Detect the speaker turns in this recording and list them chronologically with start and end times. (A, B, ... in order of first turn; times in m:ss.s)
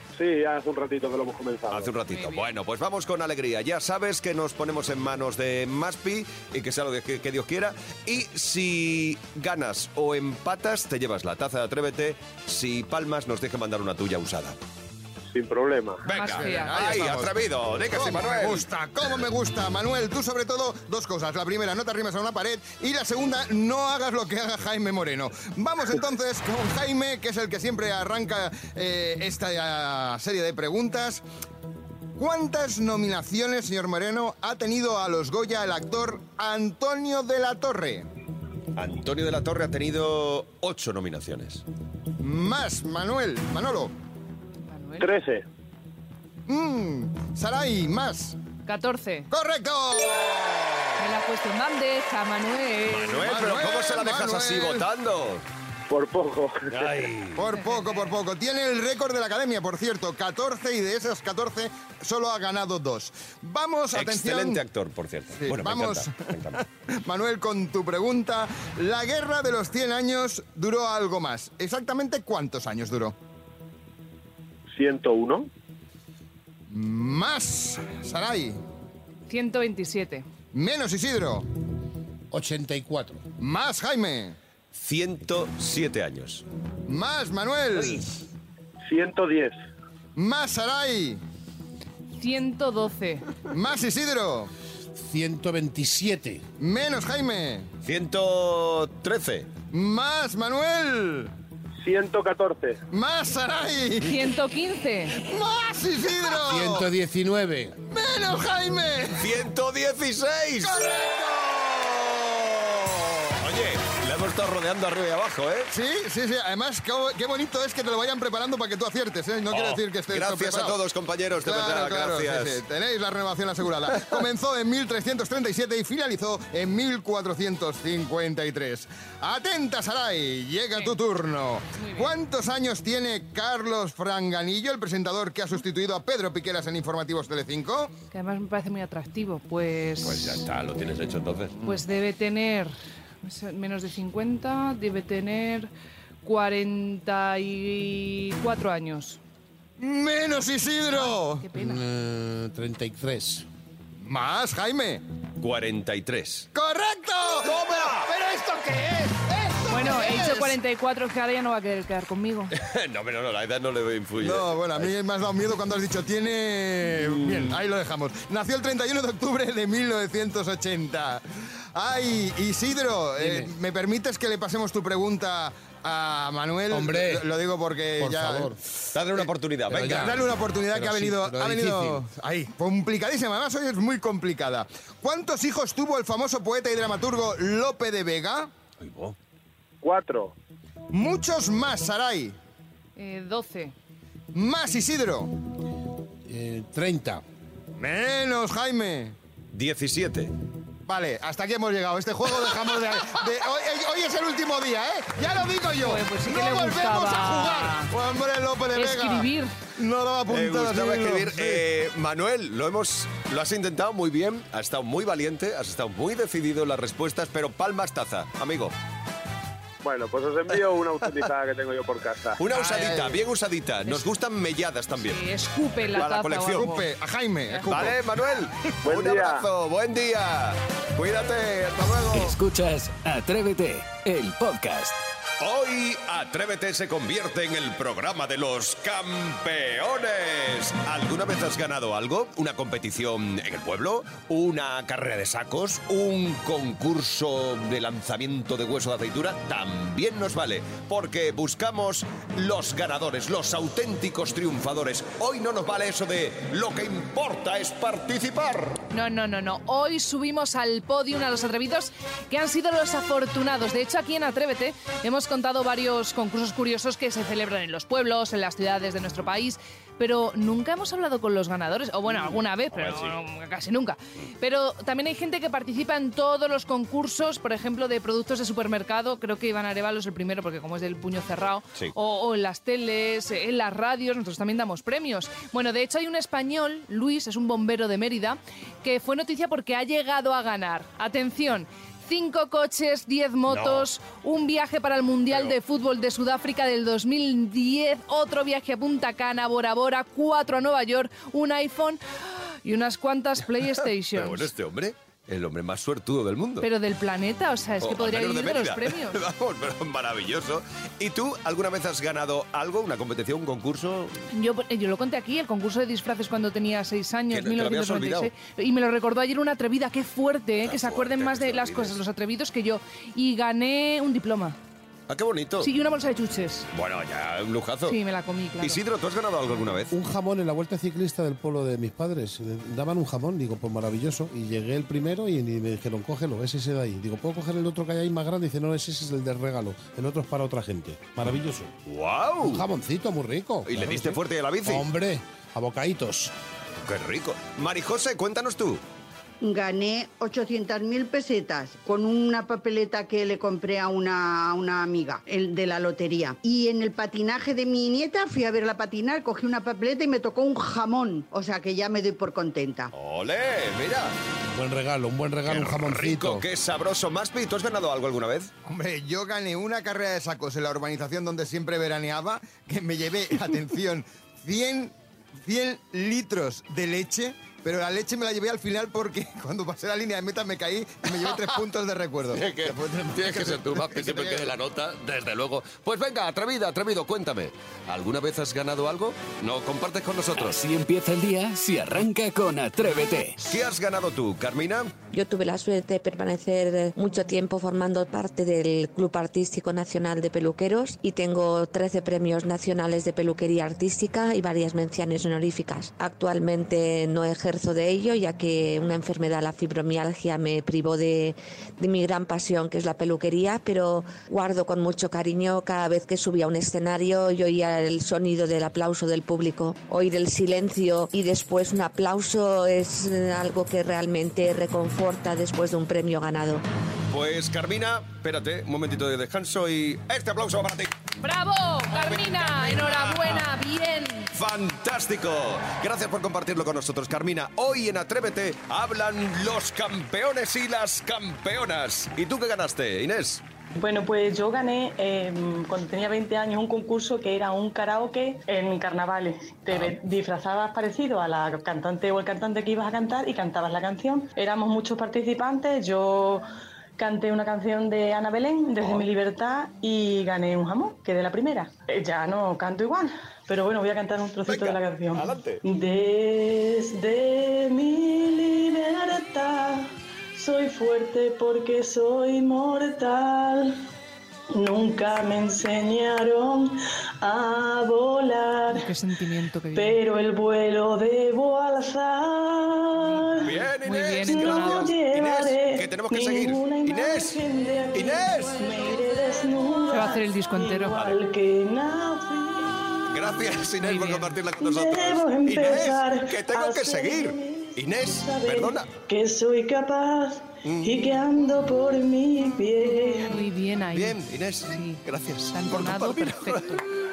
0:00.2-0:01.9 A
0:01.7-0:14.6 B
0:02.1-0:02.5 C
0:15.3-0:16.0 A
0:16.0-0:18.7 B
0:16.1-0:16.8 C
0:16.2-0:17.4 D
0:17.9-0:31.2 D
0:32.2-0:38.1 D
0:38.8-0:41.6 B
0:42.2-0:43.9 D
0:44.7-0:45.1 C
0:45.0-0:45.4 A
0:46.5-0:48.4 D
0:48.7-0:49.3 C
0:49.3-0:50.9 D
0:51.0-0:53.2 C
0:52.9-0:55.4 B
0:53.2-0:54.9 D
0:55.9-0:56.6 A
0:56.7-0:57.4 B
0:57.4-1:04.6 D
0:57.6-0:58.1 C
1:03.9-1:06.6 B
1:05.4-1:06.3 D
1:07.0-1:13.1 D
1:14.7-1:15.5 A
1:16.7-1:18.6 D
1:19.3-1:20.2 C
1:20.5-1:21.4 D
1:22.3-1:23.2 E
1:23.4-1:24.4 D
1:24.7-1:26.4 B
1:26.9-1:28.0 D
1:28.9-1:29.6 A
1:30.2-1:31.2 D
1:32.2-1:33.2 C
1:33.5-1:34.5 D
1:35.0-1:36.4 E
1:36.6-1:37.7 D
1:37.8-1:39.5 B
1:39.7-1:41.3 D
1:41.8-1:42.8 A
1:42.9-1:44.3 D
1:44.0-1:45.2 C
1:45.2-1:46.9 D
1:46.4-1:47.8 E
1:47.9-1:49.3 D
1:49.2-1:50.8 B
1:50.6-1:53.3 D
1:53.4-1:55.7 B
1:55.7-2:00.8 D
1:59.5-2:02.6 B
2:01.4-2:17.9 D
2:11.8-2:12.1 C
2:18.1-2:20.4 C
2:20.0-2:21.6 B
2:21.6-2:25.7 C
2:26.2-2:29.2 C
2:29.8-2:31.4 D
2:30.9-2:31.8 C
2:31.6-2:33.4 E
2:34.0-2:35.0 D
2:35.4-2:36.5 B
2:36.5-2:40.6 D
2:37.4-2:38.1 B
2:39.7-2:42.5 C
2:42.5-2:44.9 B
2:44.2-2:51.2 D
2:47.0-2:47.6 B
2:51.7-2:58.6 D
2:53.2-2:53.5 E
2:56.7-2:57.3 E
2:58.0-2:58.6 E
2:58.9-3:00.2 B
2:59.7-3:02.1 E
2:59.8-3:08.5 D
3:08.8-3:09.1 B
3:09.8-3:10.3 A
3:10.9-3:12.4 D
3:13.0-3:13.7 C
3:14.3-3:15.3 D
3:16.2-3:17.2 E
3:17.8-3:19.1 D
3:19.5-3:20.3 B
3:20.9-3:31.6 D
3:25.8-3:27.9 C
3:28.8-3:29.5 C
3:30.3-3:38.7 B
3:39.8-3:42.4 A
3:40.5-3:41.3 B
3:42.4-3:45.2 B
3:42.5-3:43.2 D
3:45.0-3:46.9 C
3:45.9-3:46.7 B
3:46.6-3:48.0 D
3:47.7-3:52.4 B
3:48.8-3:49.4 A
3:52.1-3:55.0 F
3:55.4-4:18.8 B
4:18.9-5:02.0 C
4:32.2-4:33.1 B
4:53.5-4:53.9 B
5:02.6-5:04.5 C
5:04.1-5:06.7 B
5:06.6-5:09.2 C
5:07.8-5:14.2 B
5:14.3-5:24.6 C
5:17.3-5:18.3 B
5:20.6-5:22.0 B
5:25.1-5:25.7 B
5:25.6-5:26.7 C
5:26.7-5:28.0 B
5:27.9-5:28.8 C
5:28.6-5:30.0 B
5:29.9-5:41.7 E
5:41.9-5:42.6 B
5:42.4-5:46.3 E
5:43.7-5:44.8 B
5:46.8-5:48.8 B
5:49.4-6:02.9 G
6:02.9-6:04.2 B
6:04.5-6:06.4 E
6:05.5-6:08.5 B
6:08.7-6:24.5 D
6:21.2-6:21.6 B
6:22.3-6:30.6 B
6:30.4-6:33.5 F
6:33.4-6:34.9 B
6:35.1-7:06.6 H
7:07.1-7:10.9 B
7:11.2-7:14.3 C
7:12.0-7:13.5 B
7:14.3-7:23.4 B
7:23.8-7:36.4 I
7:37.0-7:53.8 I
7:38.8-7:39.1 B
7:44.5-7:45.6 B
7:54.5-7:58.9 I
7:58.7-8:00.0 C
7:59.8-8:03.6 I
8:03.0-8:04.9 C
8:03.4-8:07.4 B
8:04.3-8:13.3 I
8:07.9-8:08.6 B
8:09.9-8:11.1 C
8:13.1-8:18.9 B
8:13.8-8:14.3 C
8:14.6-8:23.4 I
8:20.6-8:21.2 B
8:22.8-8:25.0 C
8:23.9-8:26.9 B
8:25.5-8:26.8 C